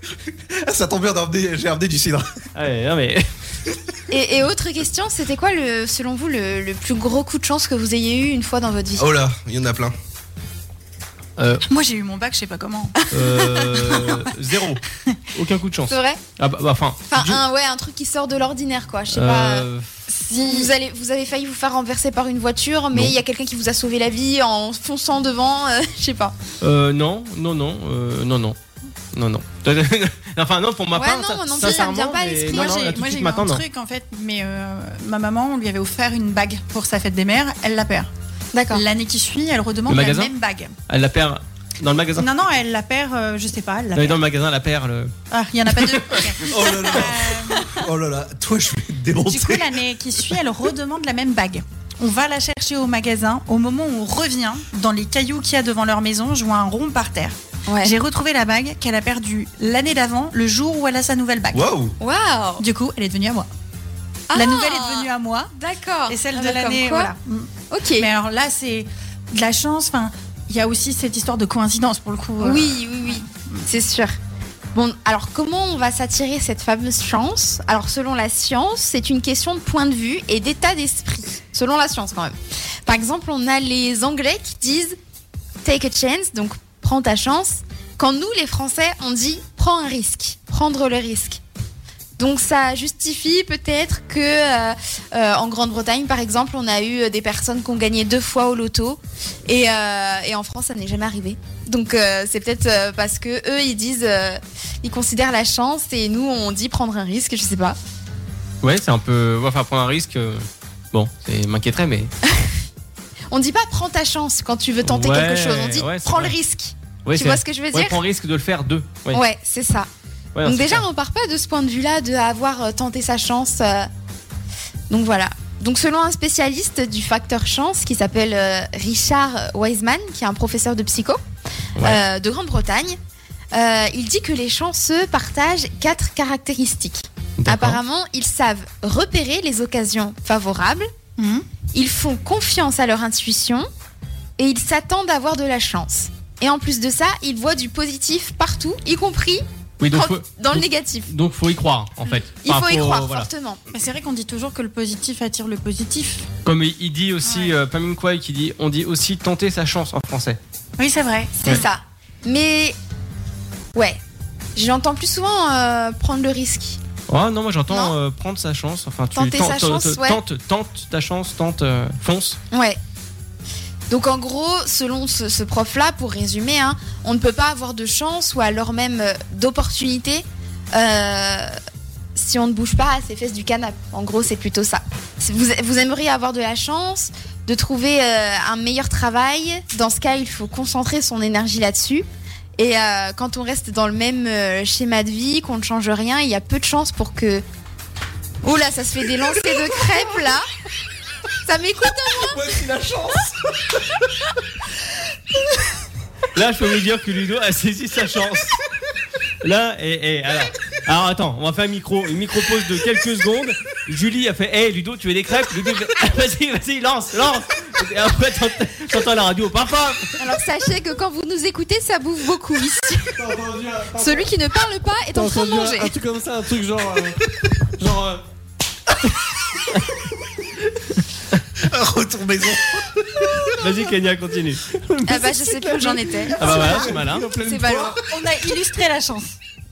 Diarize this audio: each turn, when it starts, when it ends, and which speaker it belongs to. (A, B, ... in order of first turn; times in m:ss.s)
0:00.6-0:02.3 A
0:02.6-0:03.2 B
0:04.1-0:09.1 C
0:09.0-0:09.9 A
0:11.4-0:11.6 B
0:11.7-0:13.0 D
0:13.1-0:17.4 B
0:13.2-0:14.0 C
0:15.9-0:16.2 C
0:17.1-0:19.7 C
0:19.1-0:19.9 B
0:20.1-0:20.7 D
0:20.3-0:26.4 C
0:26.6-0:28.6 B
0:29.1-0:33.6 B
0:30.9-0:32.8 C
0:32.5-0:38.1 D
0:38.5-0:38.8 C
0:38.7-0:40.8 D
0:39.9-0:40.3 B
0:40.9-0:42.3 B
0:42.2-0:44.2 D
0:44.0-0:45.1 B
0:45.3-0:47.8 D
0:46.4-0:49.8 A
0:49.3-1:01.7 D
0:57.7-0:57.9 C
1:01.5-1:02.0 A
1:02.0-1:02.6 C
1:02.6-1:03.5 D
1:04.3-1:07.1 C
1:04.3-1:05.5 D
1:06.1-1:13.6 D
1:07.7-1:08.1 C
1:12.4-1:14.2 C
1:14.8-1:22.4 C
1:22.9-1:25.0 C
1:25.6-1:31.4 C
1:32.2-1:47.8 C
1:48.6-1:52.1 B
1:53.3-1:58.0 C
1:54.8-1:56.4 B
1:57.0-1:59.2 B
1:59.1-1:59.9 C
2:00.4-2:00.9 B
2:00.4-2:03.9 C
2:04.9-2:11.2 C
2:11.8-2:13.0 C
2:13.5-2:20.9 C
2:17.4-2:17.8 B
2:21.2-2:21.5 D
2:21.7-2:23.7 C
2:24.4-2:31.1 C
2:29.8-2:33.3 B
2:32.4-2:33.6 C
2:33.7-2:36.3 D
2:36.4-2:40.4 B
2:40.8-2:41.6 D
2:41.4-2:42.8 C
2:44.6-2:46.8 C
2:47.1-2:52.4 B
2:47.7-2:48.0 C
2:49.1-2:50.2 C
2:52.5-2:52.8 C
2:53.9-3:01.6 C
3:02.2-3:12.1 C
3:12.6-3:17.4 C
3:18.4-3:20.4 C
3:21.4-3:22.6 C
3:22.7-3:23.3 A
3:26.4-3:28.6 B
3:29.4-3:40.2 B
3:40.2-3:43.2 C
3:43.2-3:44.3 E
3:43.9-3:45.9 C
3:45.1-3:47.2 E
3:47.8-3:48.2 E
3:51.6-3:53.5 A
3:53.6-3:54.6 B
3:54.7-3:58.0 E
3:55.1-3:58.0 C
3:56.4-3:57.3 B
3:58.0-3:59.4 D